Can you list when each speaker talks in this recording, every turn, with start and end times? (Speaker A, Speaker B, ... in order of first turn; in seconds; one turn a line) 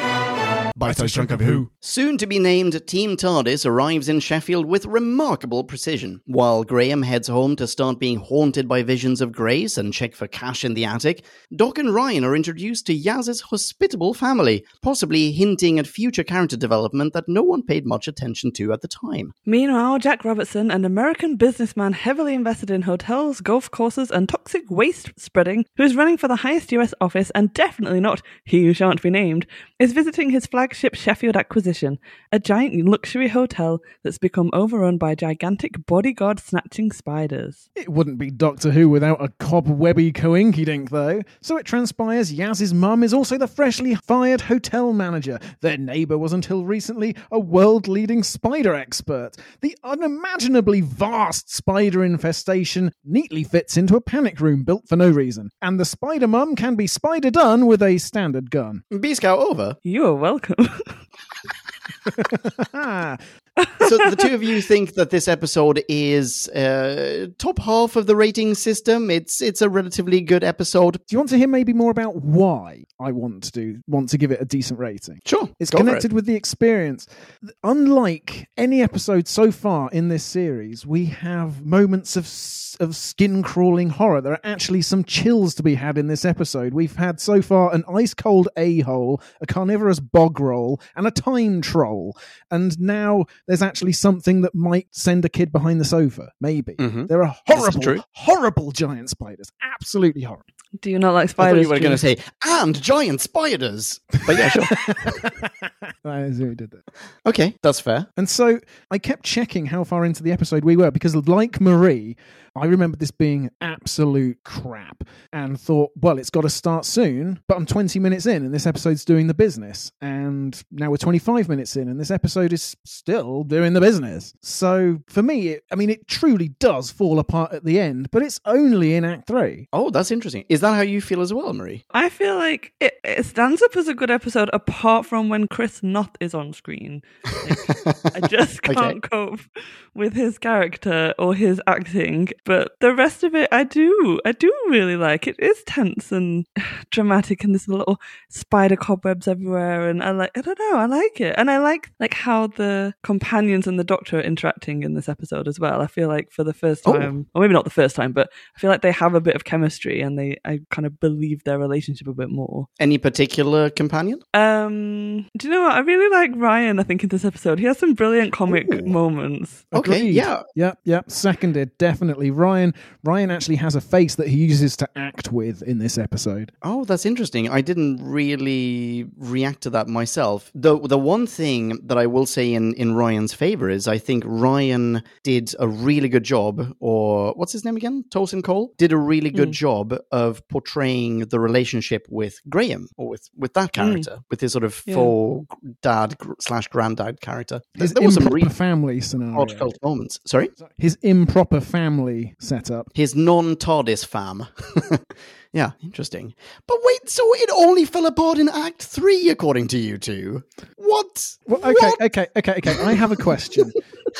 Speaker A: 0.8-19.3
Speaker B: 0.8-1.7
Speaker C: 19.5-37.6
Speaker B: 37.8-58.8
Speaker A: 58.9-59.8
Speaker C: 59.9-61.0
Speaker B: 62.1-63.2
Speaker C: 63.6-63.9
Speaker A: 63.8-71.0
Speaker B: 71.1-100.4
Speaker A: 75.3-76.0
Speaker A: 96.8-98.0
Speaker C: 100.8-102.0
Speaker A: 101.4-105.2
Speaker B: 104.4-106.8
Speaker A: 107.2-108.1
Speaker B: 108.2-129.7
Speaker A: 129.7-131.8
Speaker C: 131.9-162.7
Speaker A: 137.5-138.1
Speaker A: 138.7-139.0
Speaker A: 156.8-157.1
Speaker A: 162.8-164.2
Speaker C: 164.3-169.7
Speaker A: 169.7-170.4
Speaker B: 169.7-176.5
Speaker A: 176.6-198.5
Speaker C: 193.8-194.1
Speaker C: 194.9-195.1
Speaker B: 197.8-199.7
Speaker A: 199.3-200.5
Speaker B: 200.6-202.9
Speaker A: 202.9-212.0
Speaker B: 211.5-213.8